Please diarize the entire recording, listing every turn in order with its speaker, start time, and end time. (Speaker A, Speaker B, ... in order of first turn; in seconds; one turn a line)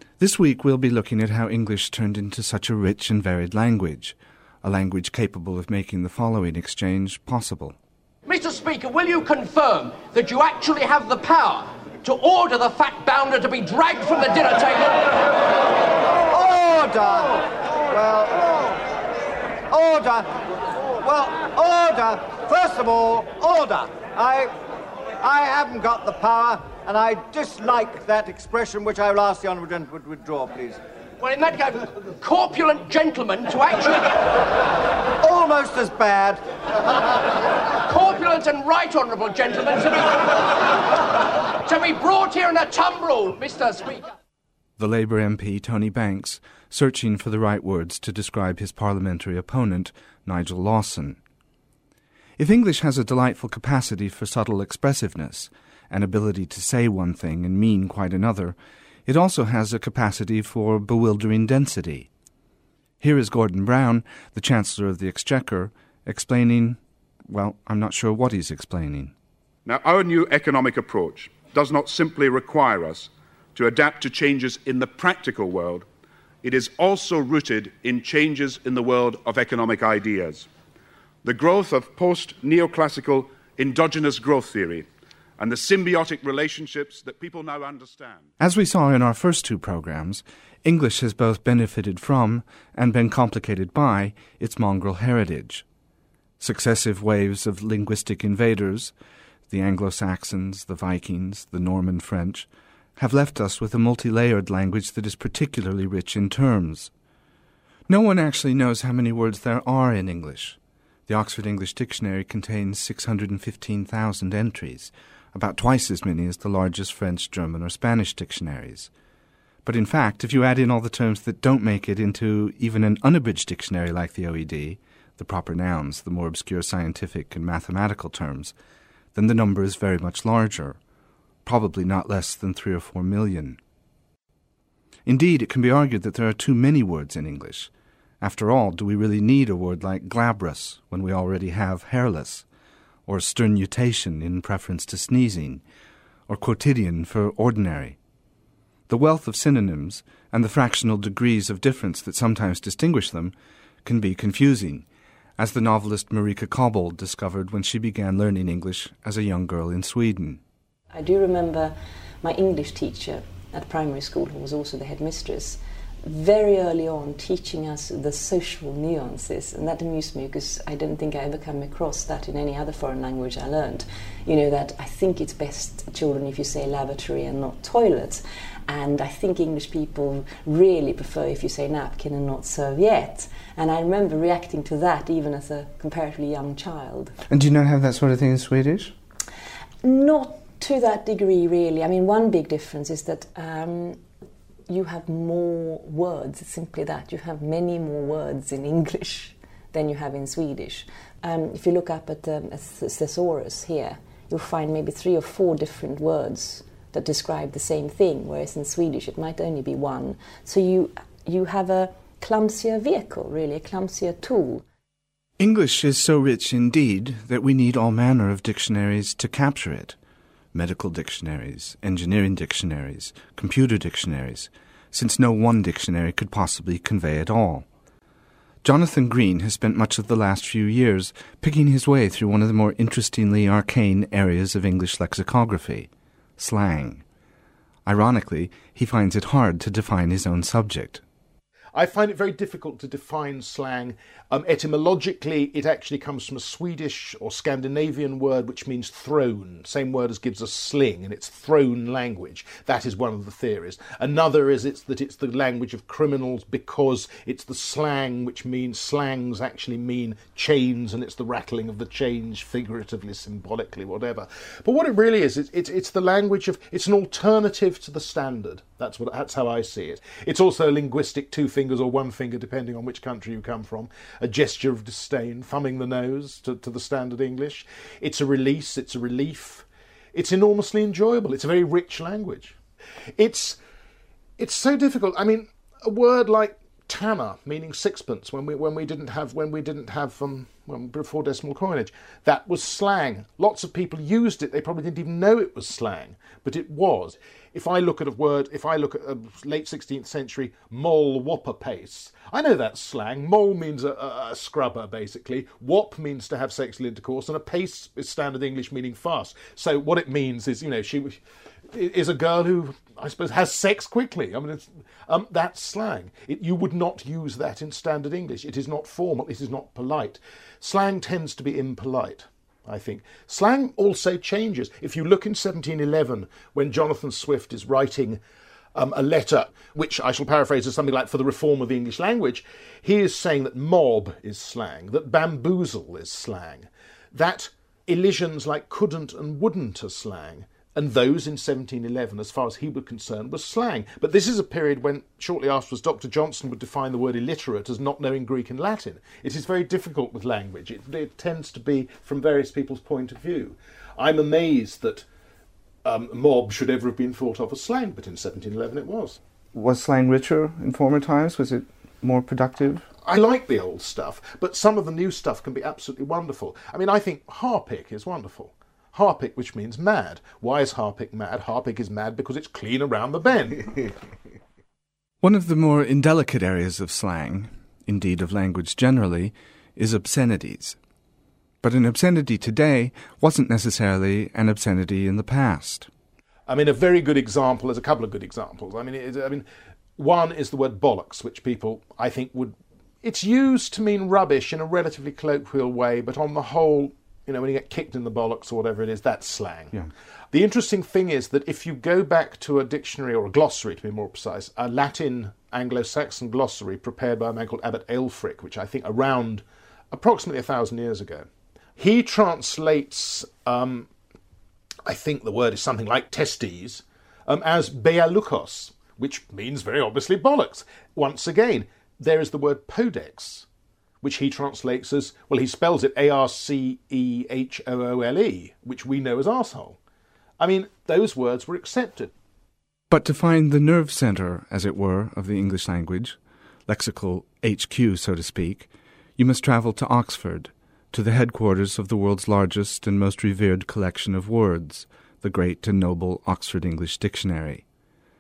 Speaker A: 0.2-7.8
Speaker B: 8.3-15.3
Speaker C: 16.2-18.9
Speaker C: 19.7-24.6
Speaker C: 25.2-30.8
Speaker B: 31.2-34.4
Speaker C: 35.2-36.4
Speaker B: 37.8-40.7
Speaker B: 41.6-44.1
Speaker A: 44.8-51.2
Speaker A: 52.4-62.1
Speaker A: 63.0-69.1
Speaker D: 69.7-75.9
Speaker D: 76.4-80.5
Speaker D: 81.2-88.2
Speaker A: 88.4-95.7
Speaker A: 96.4-98.9
Speaker A: 99.5-106.9
Speaker A: 107.9-110.6
Speaker A: 111.1-118.9
Speaker A: 119.6-128.5
Speaker A: 129.1-130.8
Speaker A: 131.4-133.6
Speaker A: 135.1-142.4
Speaker A: 143.1-145.6
Speaker A: 146.3-148.0
Speaker A: 148.9-154.8
Speaker A: 155.4-160.4
Speaker E: 160.9-187.2
Speaker A: 187.3-188.9
Speaker E: 189.8-194.0
Speaker E: 194.7-214.6
Speaker A: 215.4-219.9
Speaker A: 220.5-227.7
Speaker A: 228.6-237.0
Speaker A: 237.8-241.0
Speaker F: 241.7-282.6
Speaker F: 283.2-283.6
Speaker F: 284.4-328.2
Speaker F: 328.8-355.0
Speaker F: 355.9-359.2
Speaker A: 359.5-362.9
Speaker F: 363.1-373.9
Speaker A: 375.2-380.8
Speaker A: 381.6-385.9
Speaker F: 386.5-389.5
Speaker F: 390.0-399.8
Speaker F: 400.3-413.9
Speaker F: 414.9-423.5
Speaker F: 424.0-429.8
Speaker F: 430.4-432.1
Speaker A: 432.9-436.2
Speaker A: 436.7-447.6